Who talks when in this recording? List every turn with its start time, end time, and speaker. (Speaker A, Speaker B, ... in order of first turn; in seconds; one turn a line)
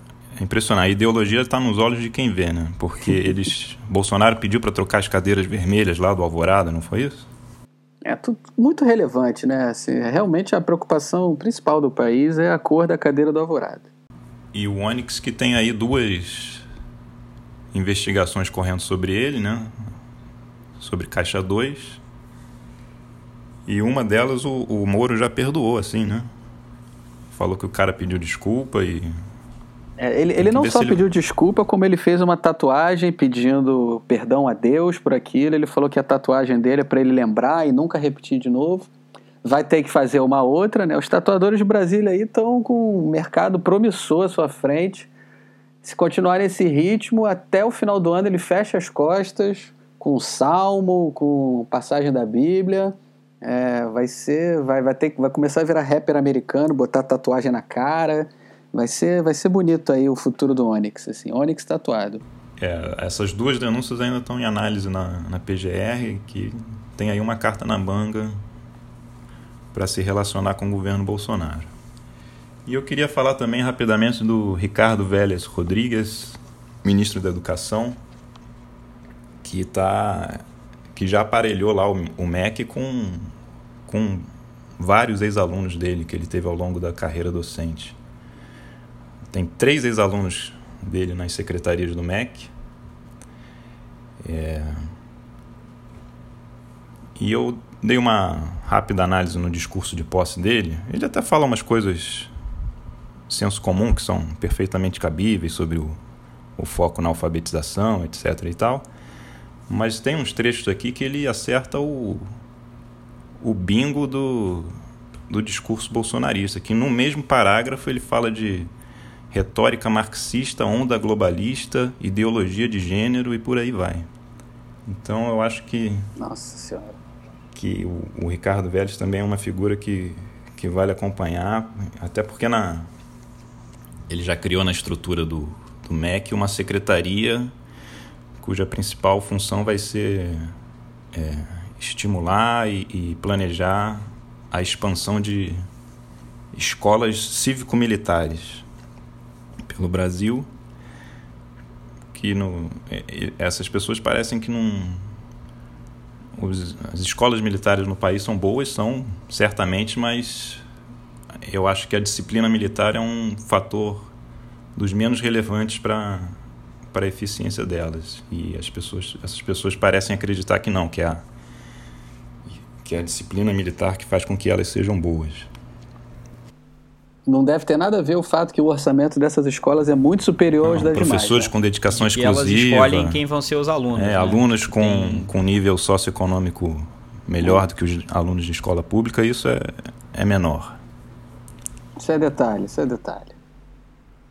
Speaker A: 0.4-7.3
Speaker B: 8.0-13.9
Speaker A: 14.5-16.6
Speaker A: 17.7-19.7
Speaker A: 20.8-22.0
Speaker A: 23.6-26.3
Speaker A: 27.3-29.1
Speaker B: 30.0-38.9
Speaker A: 30.4-31.0
Speaker B: 39.4-45.1
Speaker B: 45.8-62.2
Speaker A: 62.6-68.3
Speaker A: 69.7-71.7
Speaker A: 72.7-78.0
Speaker A: 79.4-80.4
Speaker A: 80.9-83.3
Speaker A: 83.8-84.3
Speaker A: 84.8-88.0
Speaker A: 89.3-92.5
Speaker A: 94.2-94.9
Speaker A: 97.2-102.3
Speaker A: 103.3-106.0
Speaker A: 106.6-108.8
Speaker A: 109.7-112.2
Speaker A: 113.4-114.7
Speaker A: 115.3-118.7
Speaker A: 119.3-124.0
Speaker A: 124.9-126.1
Speaker B: 126.2-127.0
Speaker A: 127.5-132.9
Speaker A: 134.1-137.5
Speaker A: 138.4-140.5
Speaker A: 141.1-145.6
Speaker A: 146.5-148.6
Speaker A: 149.7-150.5
Speaker A: 152.1-155.0
Speaker A: 156.4-160.6
Speaker A: 161.4-164.1
Speaker A: 164.8-166.3
Speaker A: 166.9-171.2
Speaker A: 172.8-175.5
Speaker B: 177.2-181.5
Speaker A: 180.6-183.2
Speaker C: 181.9-185.3
Speaker A: 183.9-190.8
Speaker B: 192.0-193.3